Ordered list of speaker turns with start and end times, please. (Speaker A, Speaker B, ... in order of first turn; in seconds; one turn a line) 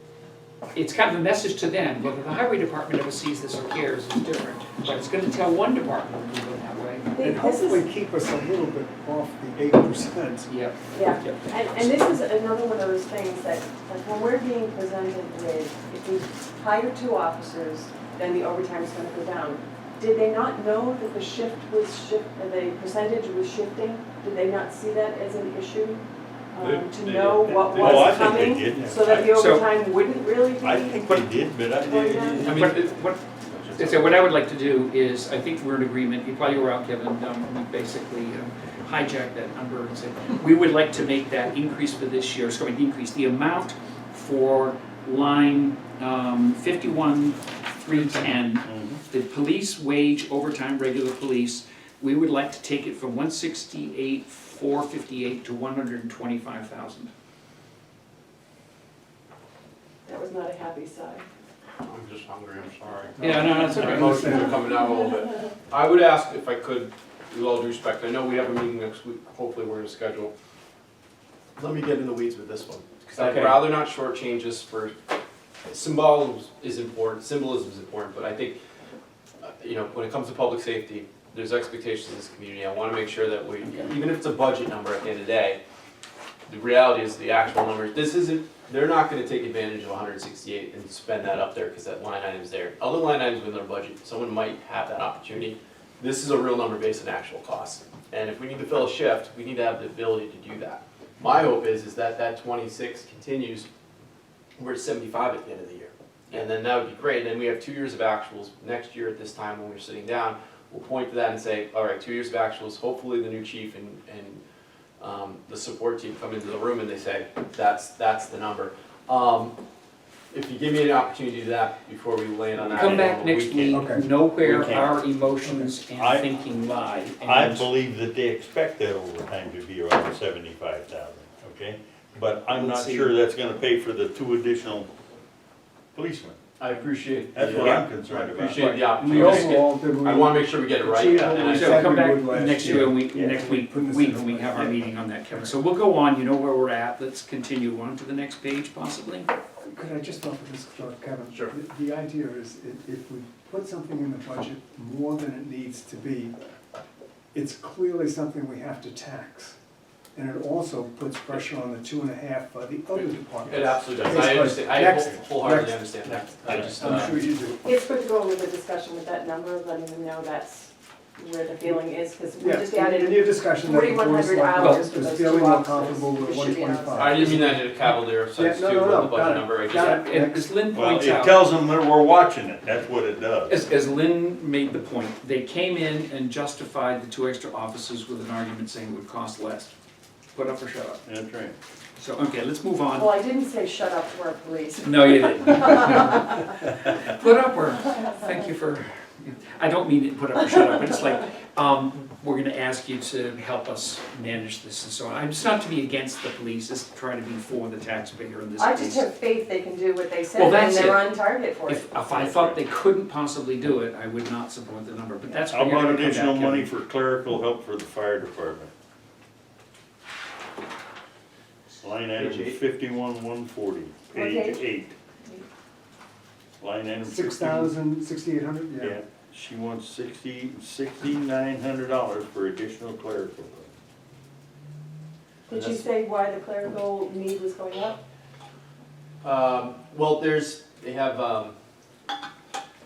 Speaker A: 0.7-7.1
Speaker B: 7.1-7.8
Speaker C: 7.2-10.5
Speaker A: 10.5-11.4
Speaker B: 10.9-31.1
Speaker D: 26.6-28.2
Speaker E: 27.7-29.3
Speaker C: 28.7-29.0
Speaker A: 29.1-29.6
Speaker E: 30.6-32.8
Speaker B: 31.8-32.5
Speaker D: 32.3-32.8
Speaker A: 32.4-33.2
Speaker D: 33.4-34.2
Speaker A: 33.8-57.1
Speaker E: 48.6-49.0
Speaker B: 60.0-61.2
Speaker D: 61.8-70.3
Speaker C: 63.2-64.5
Speaker A: 63.2-64.5
Speaker D: 71.6-74.9
Speaker A: 73.2-73.6
Speaker D: 75.7-78.6
Speaker D: 79.4-85.6
Speaker D: 86.5-103.7
Speaker D: 104.6-114.4
Speaker D: 115.0-119.6
Speaker D: 120.3-123.6
Speaker E: 122.6-123.8
Speaker A: 122.8-127.7
Speaker C: 123.7-124.1
Speaker E: 124.4-125.0
Speaker C: 125.4-125.7
Speaker E: 125.9-126.3
Speaker E: 127.2-134.9
Speaker A: 132.5-133.1
Speaker E: 135.9-136.3
Speaker D: 136.6-141.9
Speaker E: 137.3-138.6
Speaker C: 137.6-145.6
Speaker A: 139.1-139.5
Speaker A: 141.3-149.3
Speaker E: 142.7-143.3
Speaker C: 149.7-156.3
Speaker C: 157.3-159.6
Speaker C: 160.1-167.7
Speaker D: 162.9-167.2
Speaker B: 167.6-177.3
Speaker C: 172.4-177.6
Speaker D: 176.9-180.0
Speaker C: 178.3-180.6
Speaker A: 179.7-181.3
Speaker E: 180.7-183.7
Speaker A: 183.5-189.7
Speaker A: 190.3-191.0
Speaker E: 191.0-191.6
Speaker A: 192.0-193.1
Speaker B: 192.9-196.2
Speaker A: 194.8-209.1
Speaker B: 208.6-211.9
Speaker A: 210.3-216.7
Speaker E: 212.0-212.6
Speaker E: 215.5-218.7
Speaker E: 221.8-224.9
Speaker A: 222.2-222.6
Speaker B: 224.1-224.6
Speaker E: 226.6-227.8
Speaker C: 227.1-229.0
Speaker E: 228.8-233.7
Speaker B: 235.5-238.0
Speaker D: 239.2-241.5